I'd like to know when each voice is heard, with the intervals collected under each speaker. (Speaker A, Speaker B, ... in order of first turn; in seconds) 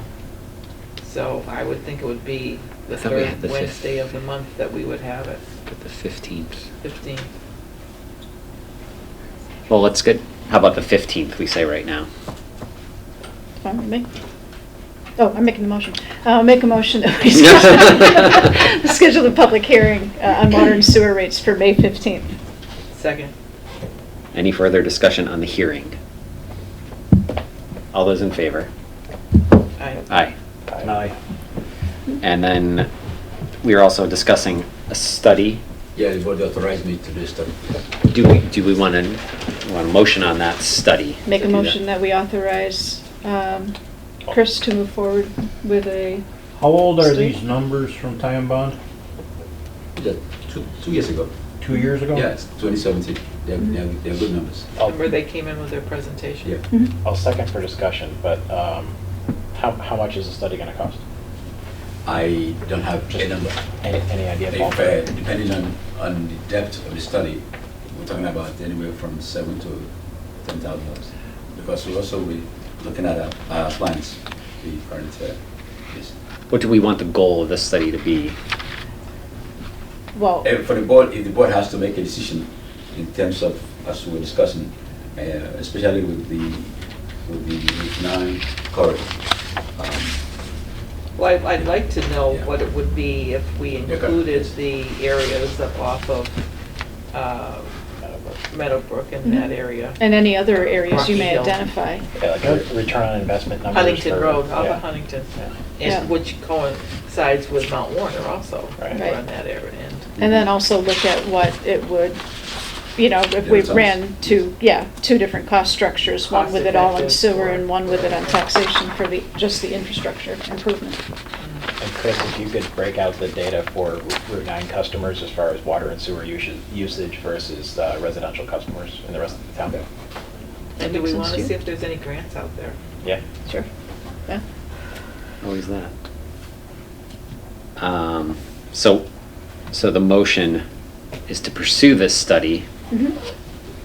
Speaker A: 1.0-5.4, 6.8-7.3, 22.9-23.3, 29.8-30.1, 54.9-56.5, 91.2-96.4, 97.1-97.7, 98.5-101.6, 103.7-110.1, 116.2-118.4, 130.8-132.8
Speaker B: 2.9-3.9, 5.7-6.7, 9.7-12.1, 17.4-18.2, 24.3-26.0, 27.9-28.7, 30.1-30.3, 32.2-32.9, 33.6-35.6, 38.0-41.8, 76.5-78.4, 135.4-135.9, 137.8-139.1, 139.7-140.6, 141.3-142.7
Speaker C: 13.6-14.1, 15.2-22.3, 41.3-43.8, 44.3-46.2, 47.0-47.4, 80.1-80.5, 99.2-102.0, 105.8-106.1, 108.9-109.2, 110.2-112.2, 113.0-121.0, 130.8-131.5, 142.9-143.2
Speaker D: 30.7-31.1, 57.0-59.0, 59.5-61.0, 63.1-65.0, 98.0-98.4, 102.2-104.8, 108.8-109.0, 121.8-129.8
Speaker E: 30.8-31.1, 46.6-48.8, 51.6-52.3
Speaker F: 36.0-37.7, 50.0-51.3, 52.1-54.7, 62.0-63.6, 64.5-75.4, 80.4-89.2, 89.7-90.2, 93.8-94.5, 113.4-114.4